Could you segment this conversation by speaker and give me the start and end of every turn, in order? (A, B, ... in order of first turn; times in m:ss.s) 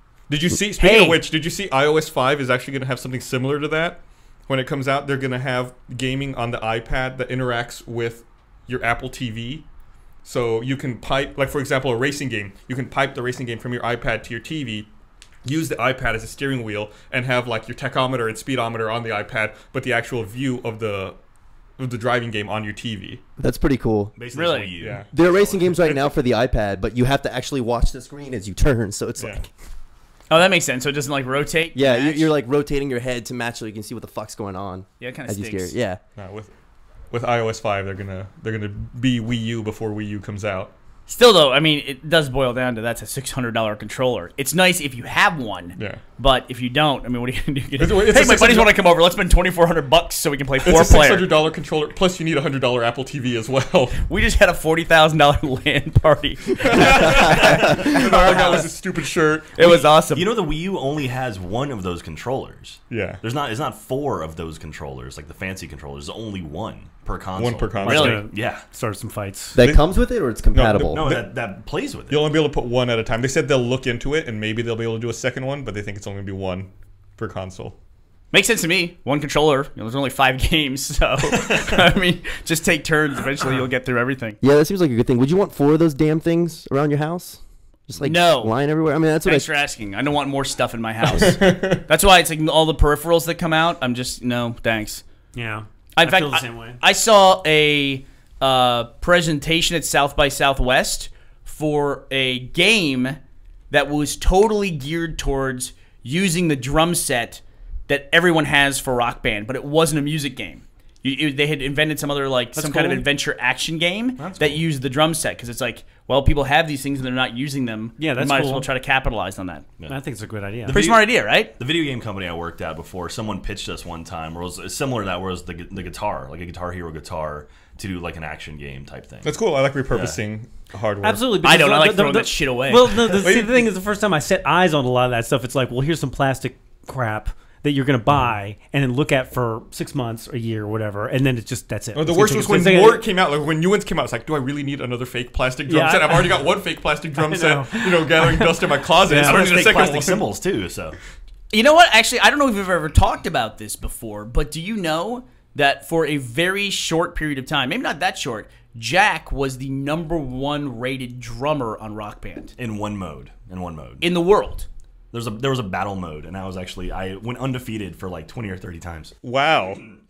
0:00.3-0:09.6 A
0:00.8-0:01.2 B
0:10.2-0:14.9 A
0:15.4-0:21.2 A
0:21.8-0:23.2 A
0:23.4-0:24.1 C
0:24.2-0:26.0 D
0:24.3-0:24.7 B
0:24.8-0:25.1 A
0:25.1-0:29.5 C
0:30.3-0:32.3 B
0:31.8-0:36.0 C
0:35.0-0:35.8 B
0:36.2-0:36.5 A
0:37.1-0:40.7 A
0:41.1-0:51.4 B
0:47.8-0:48.7 A
0:50.6-0:54.0 A
0:54.1-0:58.7 B
0:56.6-0:59.9 A
0:57.2-0:58.6 D
0:59.6-1:00.4 B
1:00.1-1:08.6 D
1:02.9-1:03.2 A
1:07.4-1:08.3 A
1:07.8-1:09.6 E
1:07.8-1:08.2 B
1:09.6-1:11.1 C
1:09.6-1:09.8 A
1:10.5-1:11.5 A
1:10.9-1:12.4 D
1:12.1-1:17.8 A
1:18.3-1:24.4 B
1:24.4-1:29.6 C
1:28.0-1:28.5 B
1:29.2-1:35.0 B
1:31.2-1:31.8 A
1:35.3-1:36.8 E
1:36.0-1:43.2 B
1:43.7-1:59.7 B
1:52.6-1:53.1 E
1:54.4-1:54.6 D
1:58.0-1:58.7 E
1:59.9-2:00.8 E
2:00.6-2:10.2 D
2:00.7-2:01.5 B
2:09.2-2:11.4 A
2:11.0-2:23.1 E
2:11.4-2:13.2 B
2:13.1-2:13.7 A
2:22.0-2:30.3 A
2:25.7-2:26.6 E
2:27.1-2:29.7 E
2:29.2-2:31.0 D
2:31.5-2:42.5 B
2:42.6-2:44.1 D
2:44.0-2:44.7 B
2:45.1-2:49.2 D
2:49.2-2:49.8 A